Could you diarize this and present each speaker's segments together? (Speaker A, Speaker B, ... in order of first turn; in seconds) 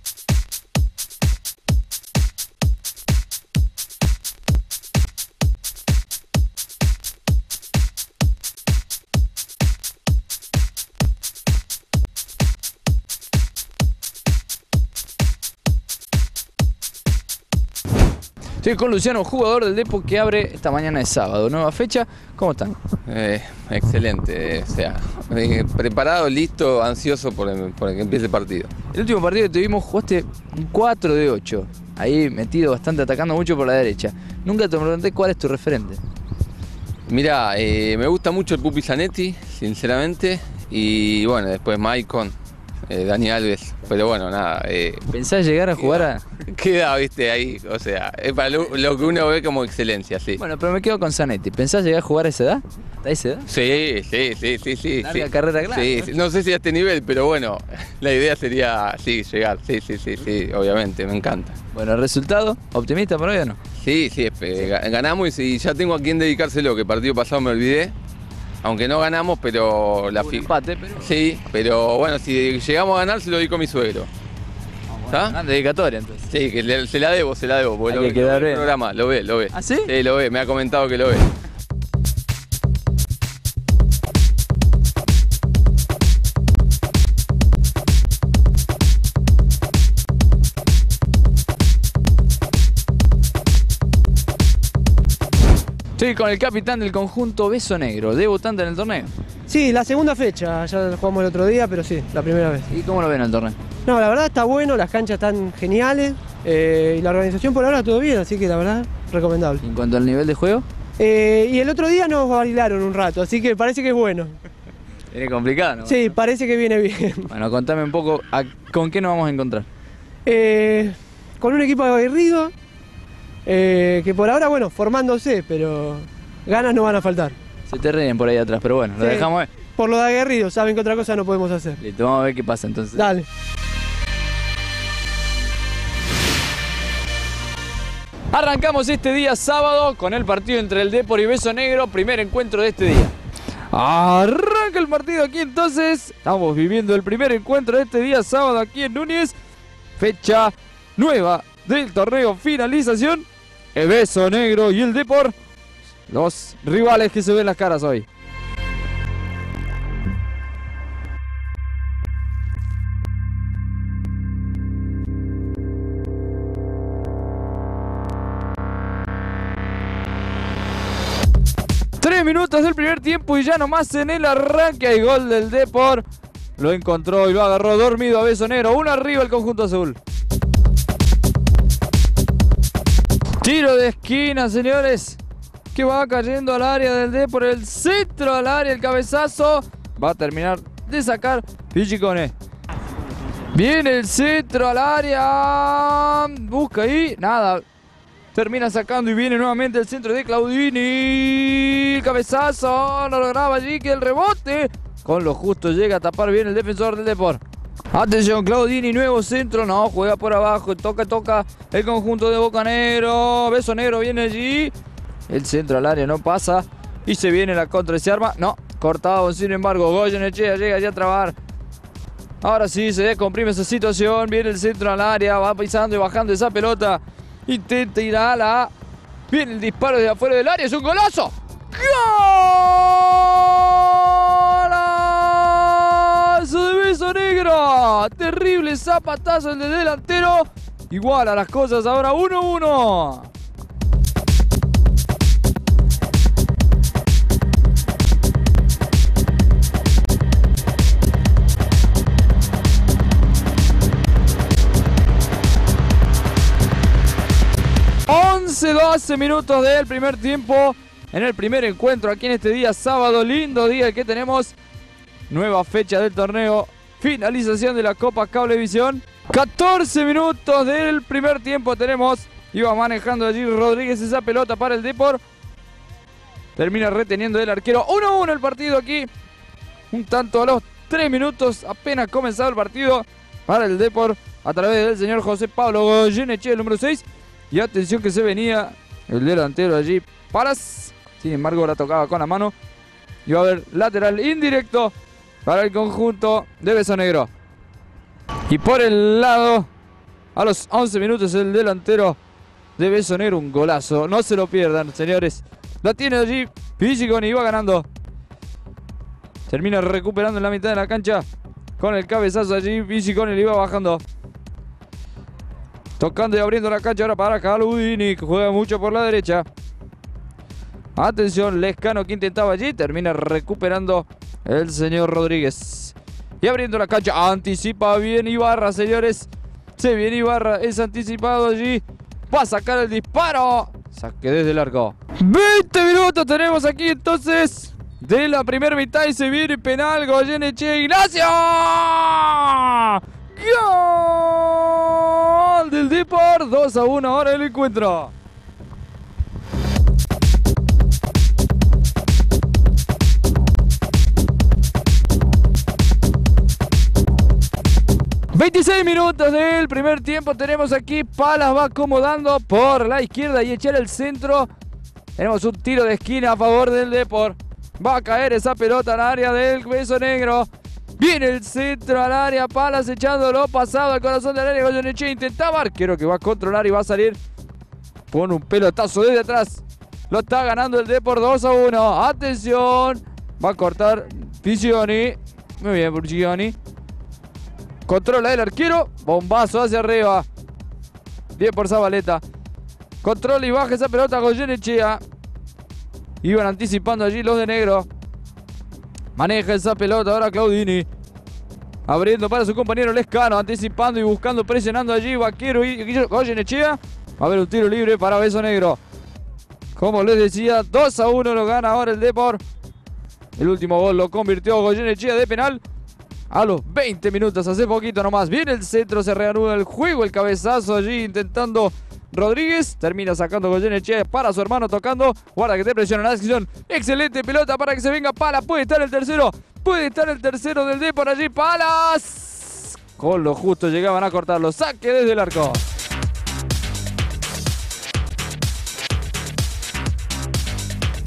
Speaker A: 18.6-22.8, 28.9-36.0, 45.1-46.2, 50.4-53.5, 55.0-56.1, 61.7-63.6, 70.2-71.1, 74.9-76.3, 77.9-78.7, 79.5-79.9, 96.0-99.1, 102.7-103.6, 109.6-110.7, 115.1-116.1, 117.3-119.7, 127.7-129.5, 131.8-133.1, 138.3-143.1, 143.7-149.4, 150.0-155.3, 156.1-158.1, 172.0-176.1, 176.6-180.0, 183.4-185.2, 185.7-192.3, 193.5-197.6, 198.3-207.4, 207.9-214.7, 215.3-221.3, 222.4-228.7, 229.3-243.3, 258.1-264.6, 265.3-275.2, 276.6-279.1, 279.9-292.5, 293.3-294.9, 295.4-297.3, 298.5-299.7, 300.4-302.2, 302.8-307.9, 309.5-311.2, 311.8-314.0, 316.0-319.5, 321.0-348.1, 358.3-364.5, 365.2-377.2, 378.1-386.6, 387.9-390.3, 391.4-392.2, 393.0-395.0, 396.2-397.9, 399.1-400.9, 401.9-408.8, 409.8-412.4, 413.4-415.6, 416.3-435.6
Speaker B: 23.1-28.7, 37.1-42.4, 42.9-45.0, 45.8-50.4, 53.5-61.6, 63.8-68.0, 68.6-74.1, 75.1-75.4, 76.3-81.3
Speaker C: 99.5-102.7, 103.9-109.6, 111.0-114.4, 115.9-117.3, 120.3-122.5, 123.5-127.4, 129.0-129.3, 129.8-131.8, 133.0-133.3